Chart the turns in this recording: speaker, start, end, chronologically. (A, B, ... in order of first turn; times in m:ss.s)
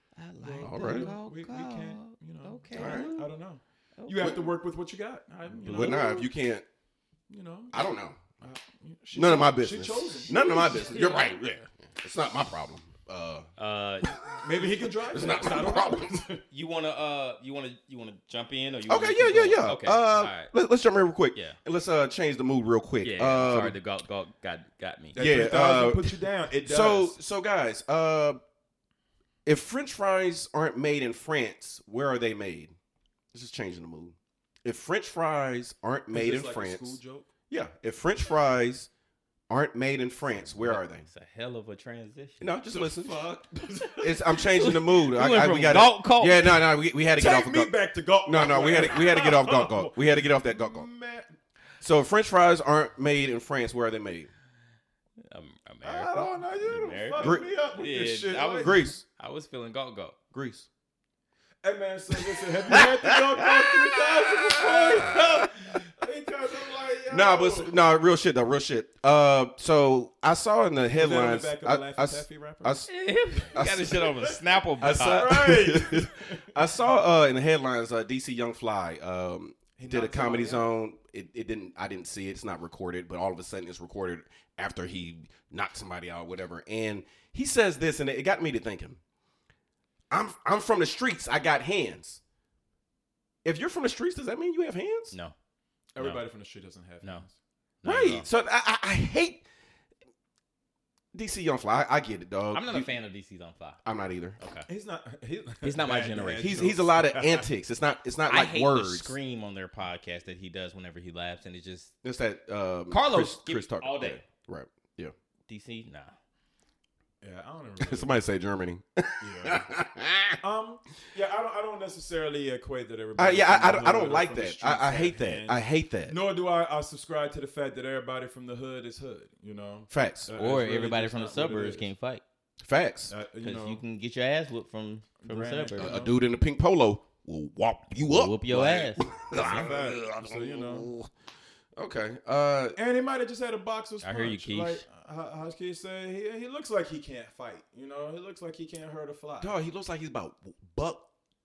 0:00.2-0:03.3 A
0:00.4-0:06.2 B
0:00.6-0:01.1 C
0:02.7-0:03.1 C
0:04.0-0:04.3 A
0:05.6-0:06.2 A
0:05.6-0:06.6 C
0:07.3-0:07.8 B
0:07.7-0:08.2 C
0:08.4-0:11.1 B
0:09.1-0:13.5 C
0:10.3-0:11.6 A
0:13.6-0:14.2 A
0:14.0-0:16.2 C
0:14.4-0:16.4 B
0:16.5-0:20.5 A
0:18.9-0:23.8 C
0:23.0-0:25.2 A
0:25.1-0:27.2 B
0:25.2-0:28.4 C
0:29.5-0:32.8 C
0:33.3-0:37.0 C
0:36.1-0:37.3 B
0:37.5-0:38.9 C
0:39.5-0:41.0 C
0:40.4-0:42.5 A
0:42.4-0:43.2 C
0:42.7-0:44.4 B
0:44.0-0:47.7 C
0:44.6-0:46.6 A
0:47.1-0:51.4 B
0:48.2-0:50.9 C
0:51.8-0:54.3 C
0:55.3-1:00.2 A
0:55.8-0:58.8 B
0:57.2-0:57.5 C
0:58.6-0:59.0 C
1:00.3-1:00.7 C
1:01.6-1:07.8 B
1:02.2-1:05.5 C
1:07.1-1:12.9 C
1:10.9-1:12.8 B
1:12.9-1:15.4 A
1:13.5-1:14.2 C
1:14.8-1:16.6 B
1:14.9-1:29.0 C
1:19.8-1:20.7 B
1:30.1-1:32.2 C
1:33.4-1:35.2 C
1:36.0-1:37.4 B
1:37.8-1:38.3 A
1:37.8-1:39.4 C
1:41.1-1:42.9 C
1:42.5-1:43.8 A
1:43.8-1:44.4 C
1:44.4-1:44.7 A
1:44.7-1:47.5 B
1:45.6-1:46.7 A
1:46.4-1:49.1 C
1:48.3-1:51.9 A
1:52.0-1:55.1 C
1:52.9-1:54.2 A
1:55.5-1:56.2 A
1:57.2-1:58.1 B
1:57.8-2:00.4 C
1:59.2-1:59.6 B
2:00.4-2:11.9 B
2:03.2-2:06.2 C
2:09.9-2:10.3 C
2:10.4-2:12.2 A
2:12.6-2:13.1 C
2:13.1-2:13.8 B
2:13.4-2:15.9 A
2:15.2-2:16.2 B
2:15.8-2:21.1 C
2:18.1-2:19.6 A
2:19.3-2:20.9 B
2:21.8-2:22.8 C
2:22.8-2:29.6 B
2:24.0-2:24.8 A
2:29.4-2:31.0 C